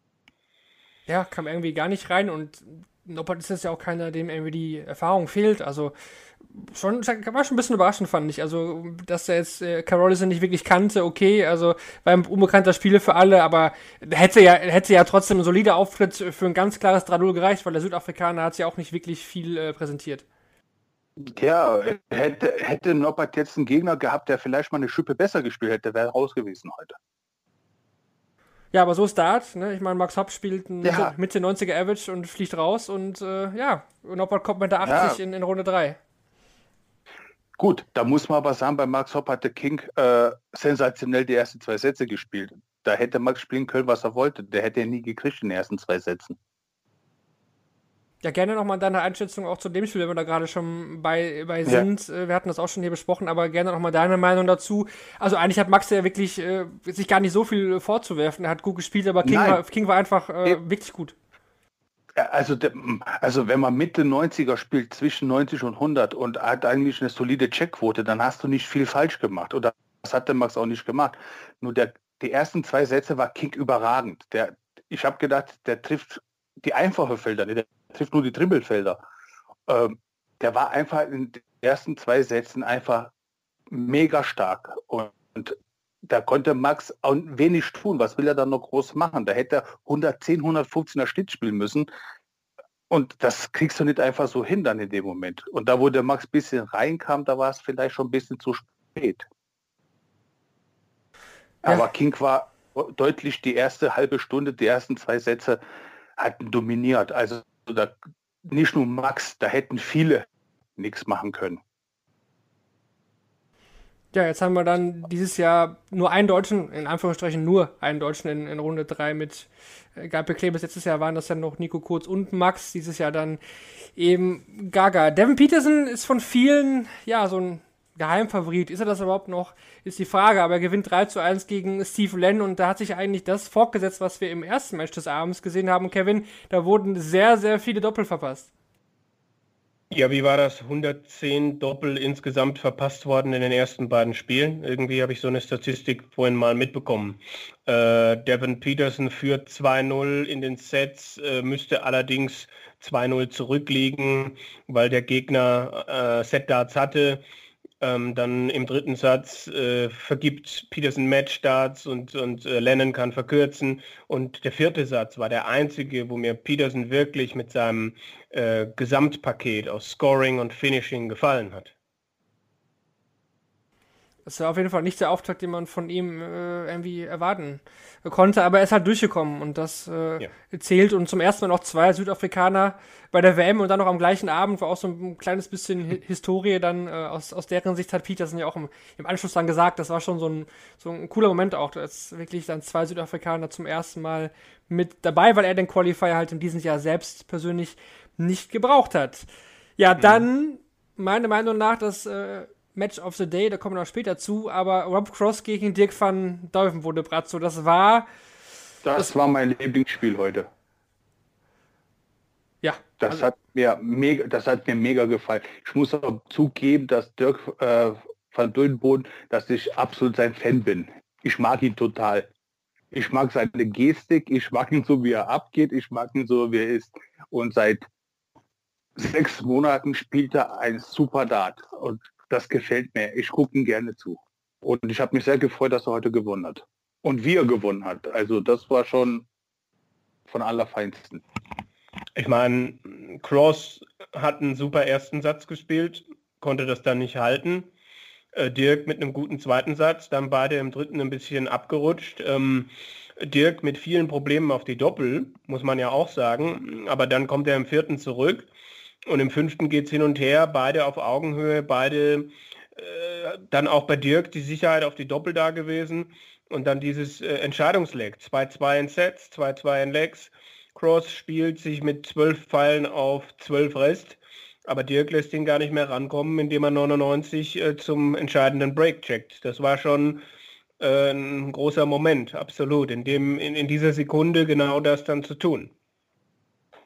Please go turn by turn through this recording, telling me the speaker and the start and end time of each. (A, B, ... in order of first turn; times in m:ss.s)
0:01.1-0:05.9 A
0:06.5-0:20.2 A
0:21.2-0:27.0 B
0:28.7-0:36.0 A
0:30.8-0:31.1 B
0:34.8-0:35.2 B
0:37.6-0:46.4 B
0:48.2-1:01.2 A
0:59.2-0:59.6 B
1:02.2-1:19.0 B
1:19.7-1:23.1 B
1:23.7-1:31.9 B
1:32.9-1:39.2 B
1:41.6-1:45.6 B
1:46.2-1:50.3 B
1:50.8-1:51.6 B
1:54.1-2:03.4 A
2:04.0-2:18.5 A
2:19.9-2:37.2 C
2:37.8-2:51.7 C
2:54.3-3:28.1 A
3:20.0-3:20.3 C
3:28.8-3:30.5 B
3:32.6-3:33.2 A
3:33.0-3:42.3 B
3:42.9-3:47.8 B
3:49.0-3:59.3 B
4:00.3-4:01.2 B
4:02.2-4:07.7 C
4:08.4-4:18.5 C
4:19.1-4:40.2 C
4:40.8-4:45.7 C